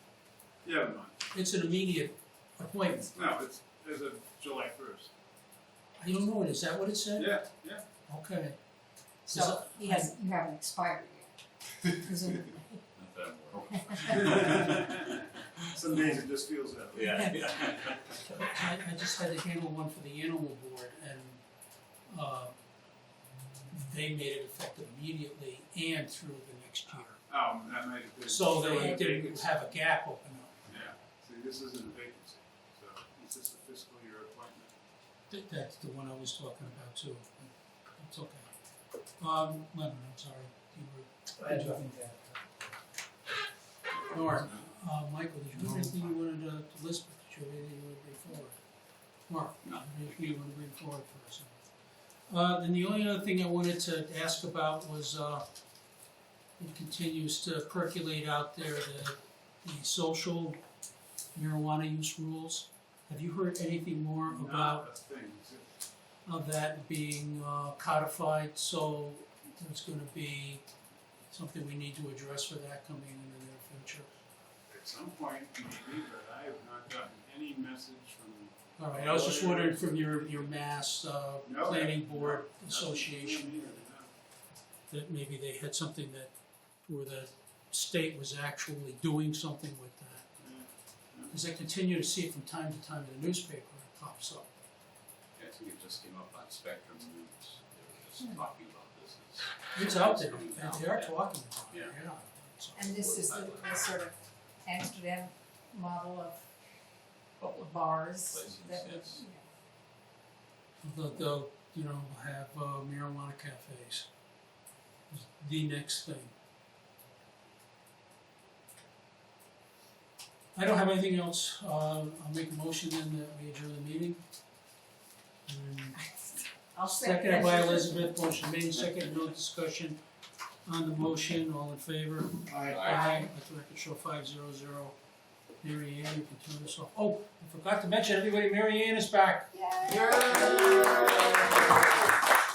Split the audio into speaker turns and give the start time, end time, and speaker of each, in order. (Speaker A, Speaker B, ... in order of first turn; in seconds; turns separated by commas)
Speaker A: 0.6-1.1, Speaker B: 1.3-3.2, Speaker A: 3.1-5.1, Speaker B: 6.0-7.4, Speaker A: 7.2-7.8, Speaker B: 8.1-8.6, Speaker C: 9.2-12.8, Speaker B: 9.3-10.1, Speaker D: 12.9-15.2, Speaker C: 13.8-14.3, Speaker A: 14.2-17.3, Speaker D: 16.9-18.3, Speaker B: 18.2-21.4, Speaker B: 22.1-22.5, Speaker B: 23.7-27.2, Speaker A: 27.3-29.5, Speaker B: 28.2-30.6, Speaker A: 30.7-34.7, Speaker B: 35.3-38.5, Speaker B: 39.2-41.9, Speaker B: 44.0-48.6, Speaker B: 49.3-51.5, Speaker D: 49.6-50.3, Speaker B: 52.3-55.5, Speaker B: 56.6-60.6, Speaker B: 61.3-64.9, Speaker A: 64.3-65.7, Speaker B: 66.2-70.6, Speaker B: 71.3-74.1, Speaker A: 74.7-80.5, Speaker B: 78.8-83.8, Speaker A: 81.4-84.1, Speaker B: 84.9-90.3, Speaker A: 90.4-91.3, Speaker B: 91.3-94.5, Speaker D: 95.4-101.9, Speaker B: 99.7-102.9, Speaker C: 102.7-106.4, Speaker D: 102.8-103.8, Speaker D: 107.4-109.2, Speaker C: 107.6-109.5, Speaker B: 110.8-114.1, Speaker B: 115.1-116.3, Speaker B: 120.5-124.2, Speaker B: 125.5-126.0, Speaker C: 126.0-128.2, Speaker B: 126.8-130.0, Speaker B: 130.7-134.9, Speaker D: 132.7-133.0, Speaker C: 132.8-133.3, Speaker B: 135.6-141.2, Speaker C: 139.5-141.7